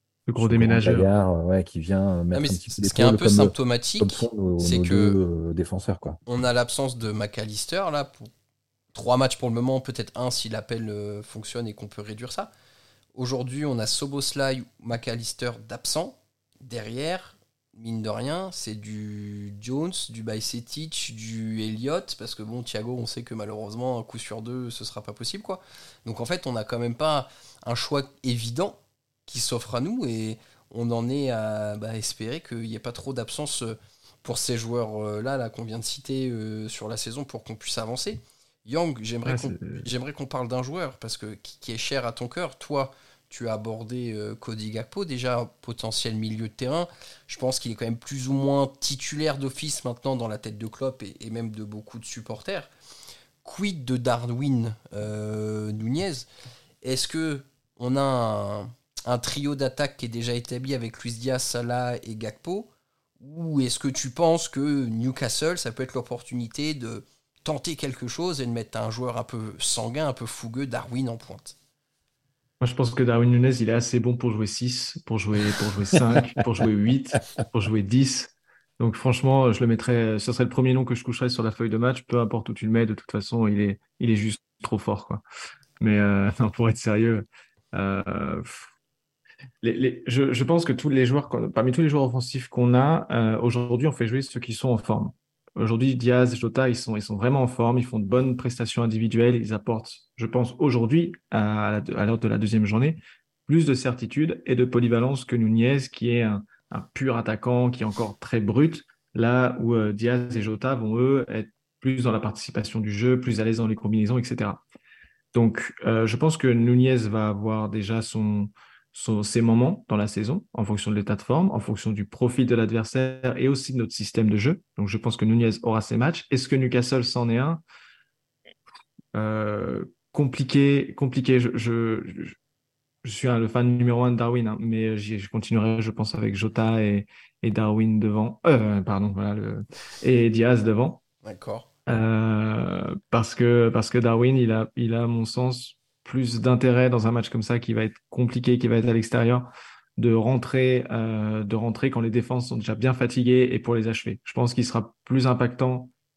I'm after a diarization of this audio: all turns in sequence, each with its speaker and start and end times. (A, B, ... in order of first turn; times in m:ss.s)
0:00.3-0:01.1 A
0:00.4-0:06.2 B
0:02.3-0:05.2 C
0:06.2-0:08.3 C
0:08.9-0:12.5 C
0:13.1-0:52.7 C
0:39.2-0:39.9 A
0:53.4-0:56.3 C
0:56.8-1:11.6 C
1:12.6-1:25.2 A
1:25.8-1:28.7 A
1:29.6-1:54.6 A
1:55.3-2:07.6 A
2:09.1-2:12.4 A
2:13.0-2:21.0 A
2:21.2-2:21.7 C
2:21.9-2:35.9 A